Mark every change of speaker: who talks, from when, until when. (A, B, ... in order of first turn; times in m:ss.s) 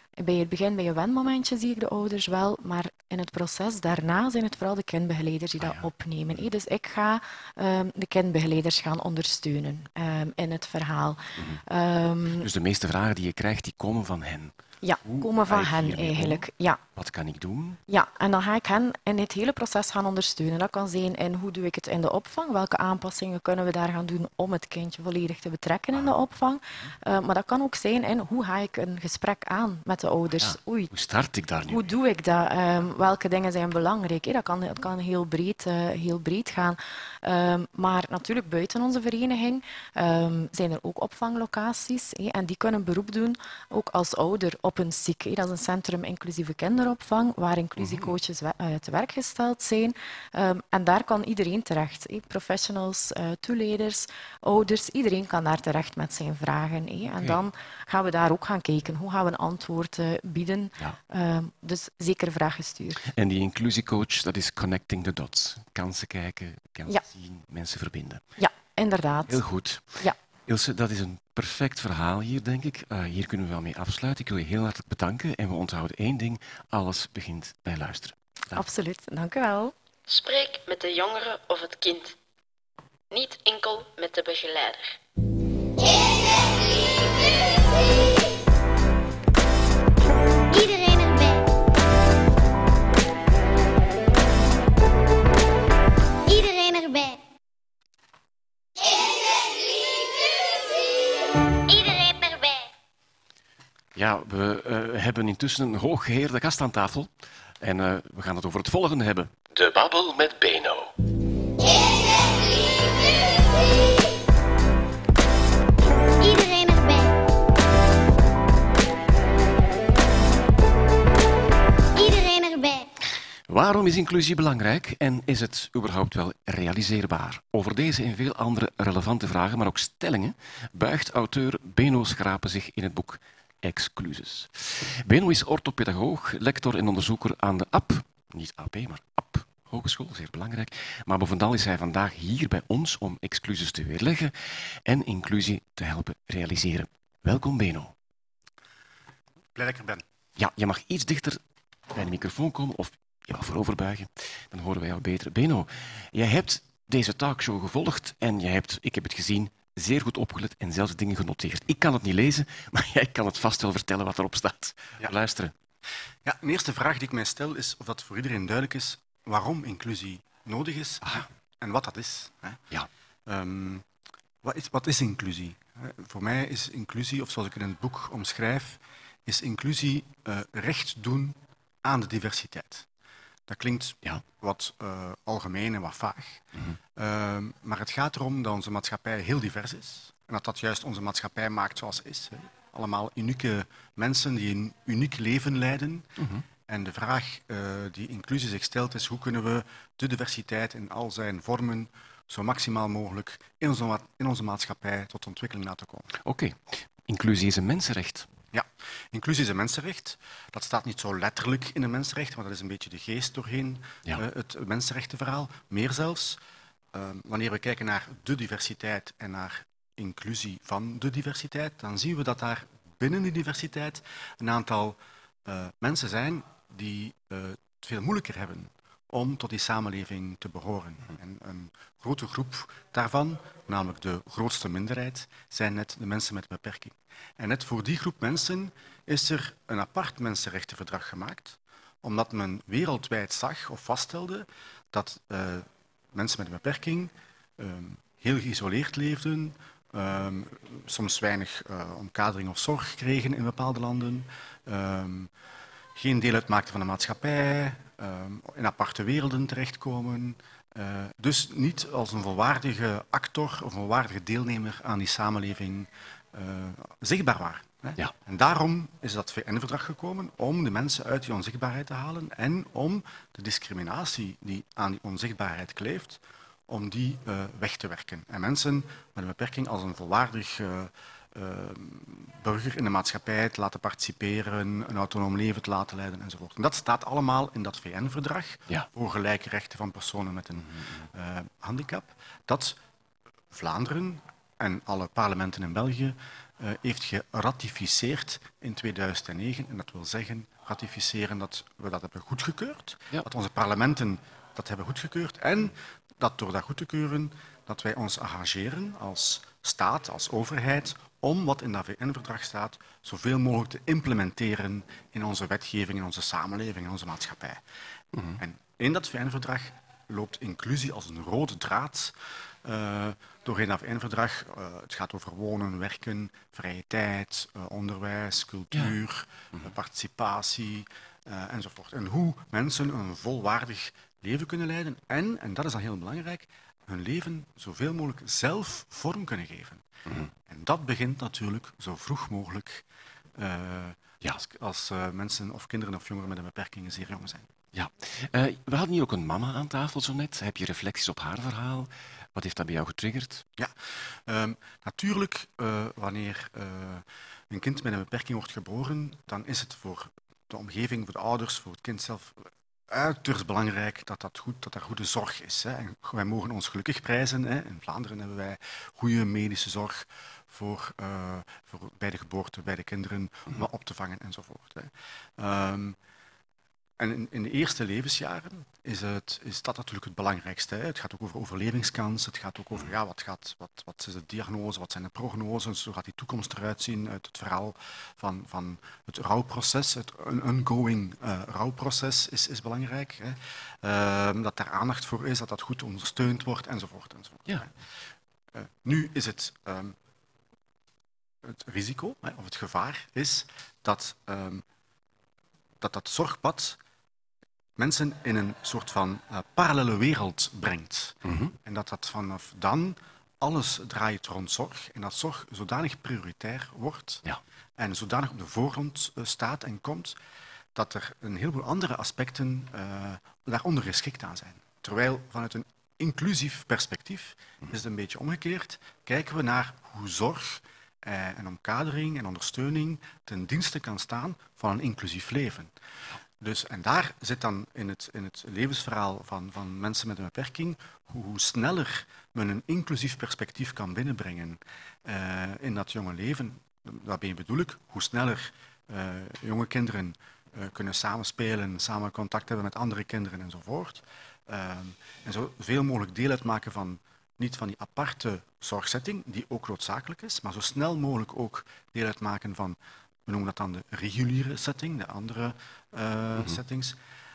0:00.2-0:12.5 A
0:05.6-0:06.4 B
0:12.4-0:17.8 B
0:14.8-0:16.8 A
0:17.9-0:30.9 A
0:30.3-0:31.9 B
0:31.7-1:03.0 A
0:47.8-0:48.1 B
0:57.1-0:57.4 B
1:03.2-1:08.2 B
1:08.4-1:09.4 A
1:09.3-1:18.6 B
1:18.5-1:19.7 A
1:20.1-1:22.2 C
1:23.1-1:25.0 C
1:30.5-1:31.4 D
1:36.3-1:37.2 D
1:41.7-1:42.6 D
1:43.9-1:50.9 B
1:56.2-1:57.1 D
2:02.0-2:02.8 D
2:03.5-2:27.9 B
2:29.5-2:30.0 E
2:30.4-2:31.4 B
2:31.9-2:45.5 B
2:46.2-2:52.6 E
2:53.3-2:53.8 E
2:54.4-3:02.8 E
3:03.5-3:06.4 E
3:07.0-3:16.1 E
3:16.2-3:16.4 B
3:16.6-3:26.1 E
3:26.2-3:28.3 B
3:28.5-3:36.4 E
3:36.9-4:15.3 E
4:15.9-4:52.8 E
4:50.6-4:51.0 B
4:53.5-5:17.6 E
5:18.1-5:18.4 B
5:18.4-5:39.9 E
5:40.5-5:42.8 E
5:43.4-5:47.5 E
5:47.7-5:53.4 B
5:54.2-6:16.0 E
6:17.0-6:37.7 E
6:38.5-6:39.9 E
6:41.4-6:44.6 E
6:45.8-6:46.8 E
6:47.8-6:57.2 E
6:51.2-6:51.5 B
6:57.8-7:00.2 E
7:00.7-7:15.7 E
7:16.4-7:47.0 E